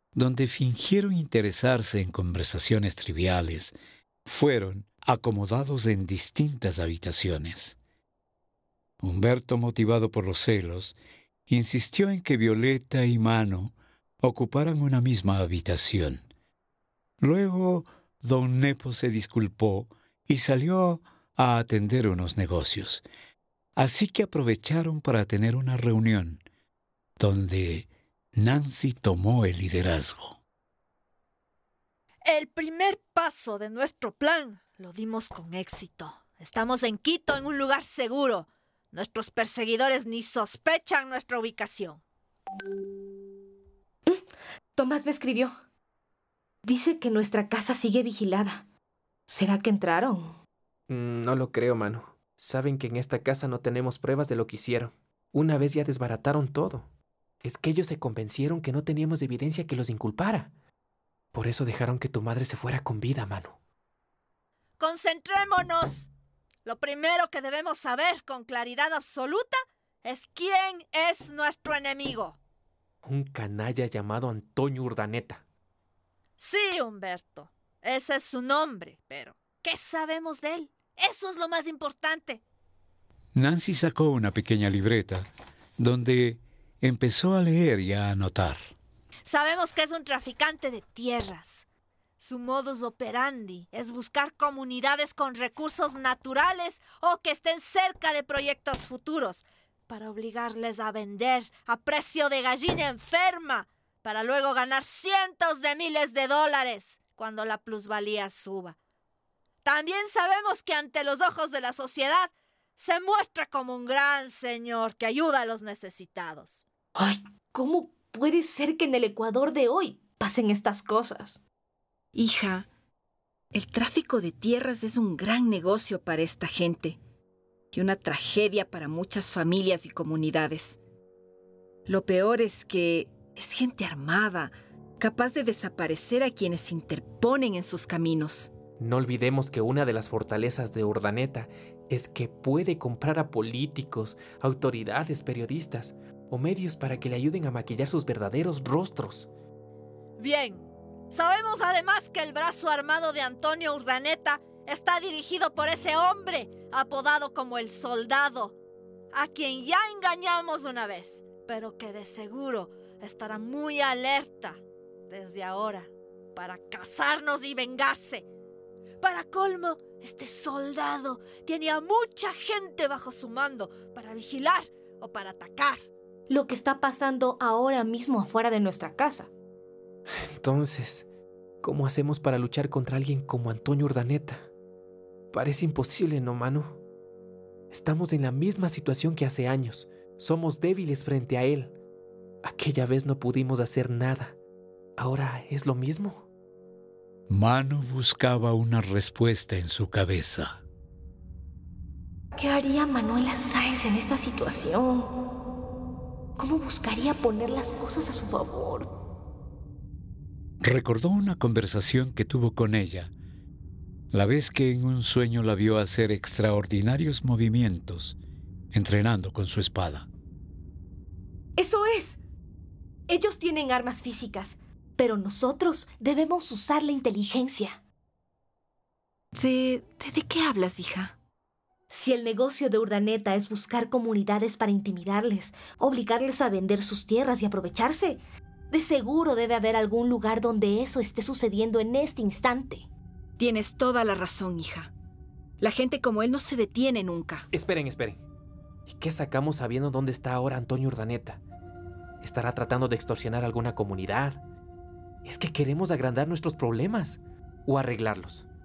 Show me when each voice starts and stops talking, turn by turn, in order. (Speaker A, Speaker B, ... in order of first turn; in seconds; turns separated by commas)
Speaker A: 0.1-7.8, Speaker A: 9.0-11.0, Speaker A: 11.5-16.2, Speaker A: 17.2-23.0, Speaker A: 23.8-26.4, Speaker A: 27.2-30.4, Speaker B: 32.2-42.0, Speaker C: 44.7-45.5, Speaker C: 46.6-48.6, Speaker C: 49.3-50.3, Speaker D: 50.9-56.9, Speaker D: 57.4-60.5, Speaker D: 61.3-63.6, Speaker B: 64.8-66.1, Speaker B: 66.7-72.4, Speaker D: 73.0-75.4, Speaker B: 76.4-82.4, Speaker A: 83.3-88.6, Speaker B: 89.2-91.6, Speaker B: 92.2-108.8, Speaker B: 109.6-116.6, Speaker C: 117.0-121.4, Speaker E: 122.1-122.7, Speaker E: 123.5-127.0, Speaker E: 127.7-130.8, Speaker E: 131.9-138.5, Speaker D: 138.8-149.3, Speaker B: 150.2-158.5, Speaker B: 159.1-168.2, Speaker B: 169.0-175.9, Speaker C: 176.3-179.3, Speaker D: 180.3-181.1, Speaker D: 181.6-184.5, Speaker D: 185.3-186.8, Speaker D: 187.7-191.7, Speaker D: 192.4-194.3, Speaker D: 195.0-196.2, Speaker A: 197.3-200.6, Speaker C: 202.3-205.1, Speaker C: 206.3-208.9, Speaker A: 210.6-213.1, Speaker A: 214.1-218.2, Speaker A: 218.7-220.1, Speaker C: 221.6-222.2, Speaker C: 223.1-227.8, Speaker E: 229.3-231.1, Speaker C: 231.9-242.9, Speaker E: 243.4-244.9, Speaker E: 245.6-247.4, Speaker D: 247.5-248.2, Speaker D: 248.9-251.4, Speaker D: 252.2-254.4, Speaker D: 255.2-258.4